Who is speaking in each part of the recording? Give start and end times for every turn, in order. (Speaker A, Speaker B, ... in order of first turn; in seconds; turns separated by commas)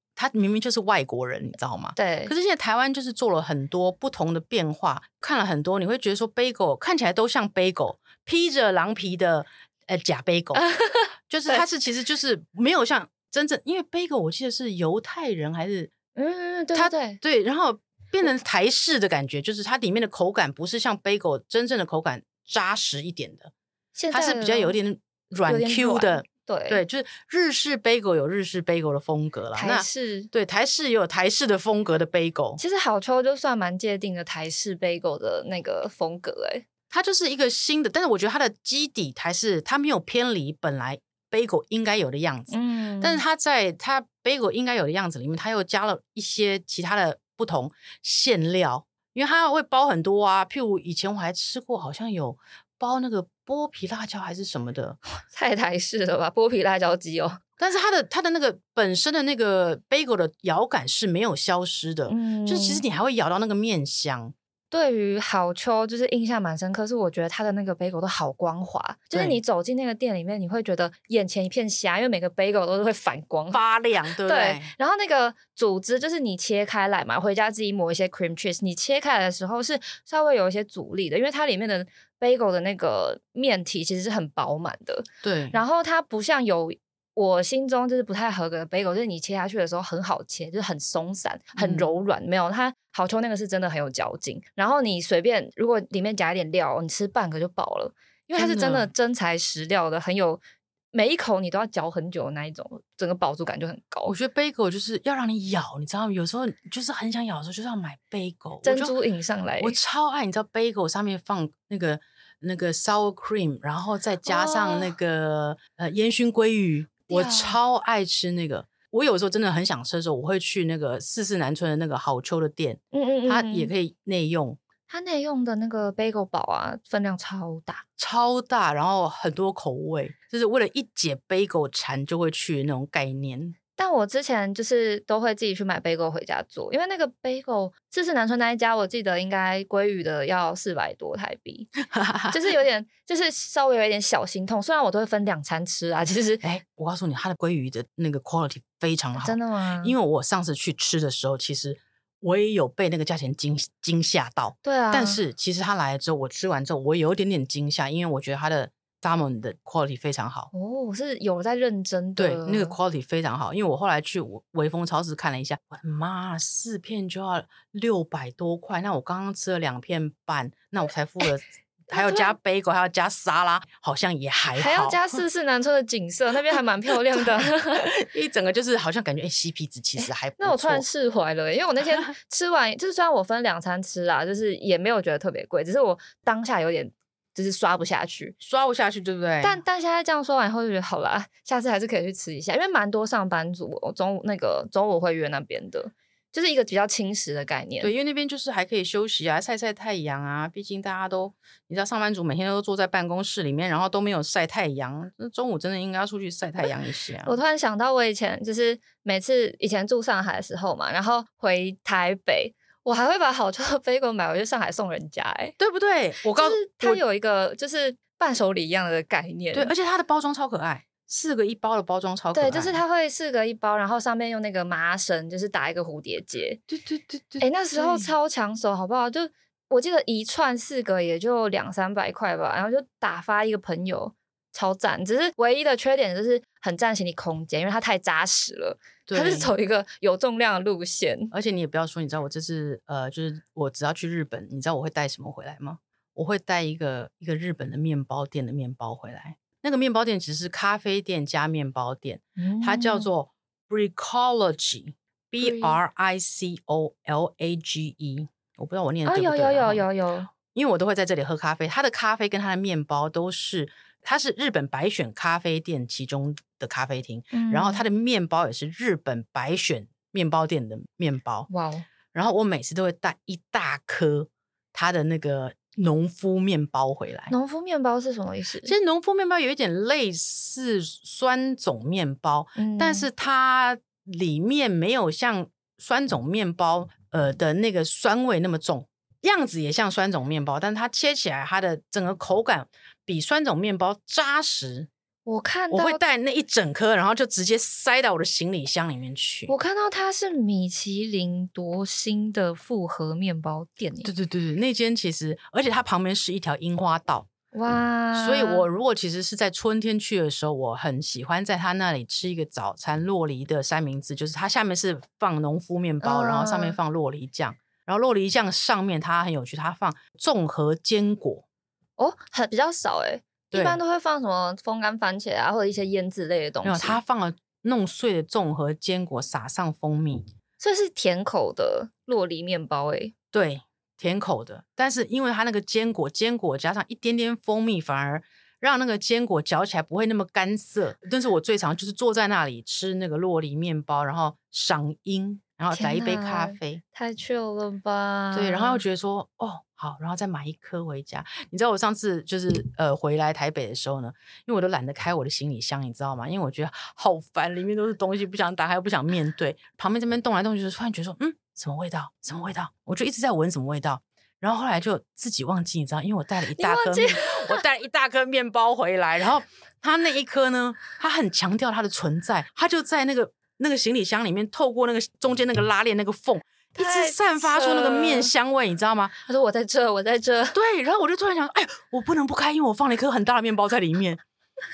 Speaker A: 0.2-10.6, Speaker B: 2.0-2.3, Speaker B: 10.5-11.6, Speaker A: 11.3-15.9, Speaker B: 16.1-17.2, Speaker A: 16.7-23.5, Speaker B: 23.9-24.8, Speaker A: 24.1-32.6, Speaker B: 25.4-26.8, Speaker B: 29.6-30.3, Speaker B: 32.6-36.6, Speaker A: 36.9-55.0, Speaker B: 42.5-43.2, Speaker B: 55.1-57.4, Speaker A: 57.6-64.3, Speaker B: 62.1-62.8, Speaker B: 64.7-73.6, Speaker A: 73.5-74.7, Speaker B: 74.2-100.4, Speaker A: 85.2-85.6, Speaker A: 91.6-91.9, Speaker A: 98.3-98.9, Speaker B: 100.9-104.2, Speaker A: 104.1-109.0, Speaker B: 108.6-109.8, Speaker A: 109.6-124.6, Speaker B: 114.2-115.0, Speaker B: 117.1-117.6, Speaker B: 122.9-123.7, Speaker B: 124.9-127.8, Speaker A: 128.0-133.6, Speaker B: 133.8-141.7, Speaker A: 141.9-142.4, Speaker B: 142.3-146.4, Speaker A: 146.4-160.5, Speaker B: 149.2-150.0, Speaker B: 154.6-155.2, Speaker B: 160.5-162.8, Speaker A: 162.2-175.0, Speaker B: 171.9-172.4, Speaker B: 174.6-177.9, Speaker A: 177.1-180.8, Speaker B: 180.0-188.4, Speaker A: 188.4-189.6, Speaker B: 189.4-197.9, Speaker A: 197.8-207.4, Speaker B: 207.2-215.6, Speaker A: 215.6-217.0, Speaker B: 216.3-219.7, Speaker A: 219.5-222.8, Speaker B: 222.3-226.6, Speaker A: 226.7-228.1, Speaker B: 227.4-241.3, Speaker A: 239.1-239.5, Speaker A: 241.3-271.5, Speaker B: 252.4-253.1, Speaker B: 255.4-255.8, Speaker B: 259.1-260.3, Speaker B: 267.3-267.8, Speaker B: 271.5-271.9, Speaker A: 272.1-277.3, Speaker B: 277.3-278.8, Speaker A: 278.6-294.9, Speaker B: 282.6-283.1, Speaker B: 295.3-296.1, Speaker A: 295.7-299.5, Speaker B: 299.5-304.1, Speaker A: 304.0-307.3, Speaker B: 307.5-308.7, Speaker A: 308.1-321.4, Speaker B: 316.0-316.8, Speaker B: 322.0-327.0, Speaker A: 323.5-323.8, Speaker A: 326.6-330.3, Speaker B: 330.6-333.1, Speaker A: 333.3-346.8, Speaker B: 345.7-348.8, Speaker A: 348.3-379.1, Speaker B: 366.6-367.6, Speaker B: 376.8-378.3, Speaker B: 379.3-380.6, Speaker A: 380.5-384.2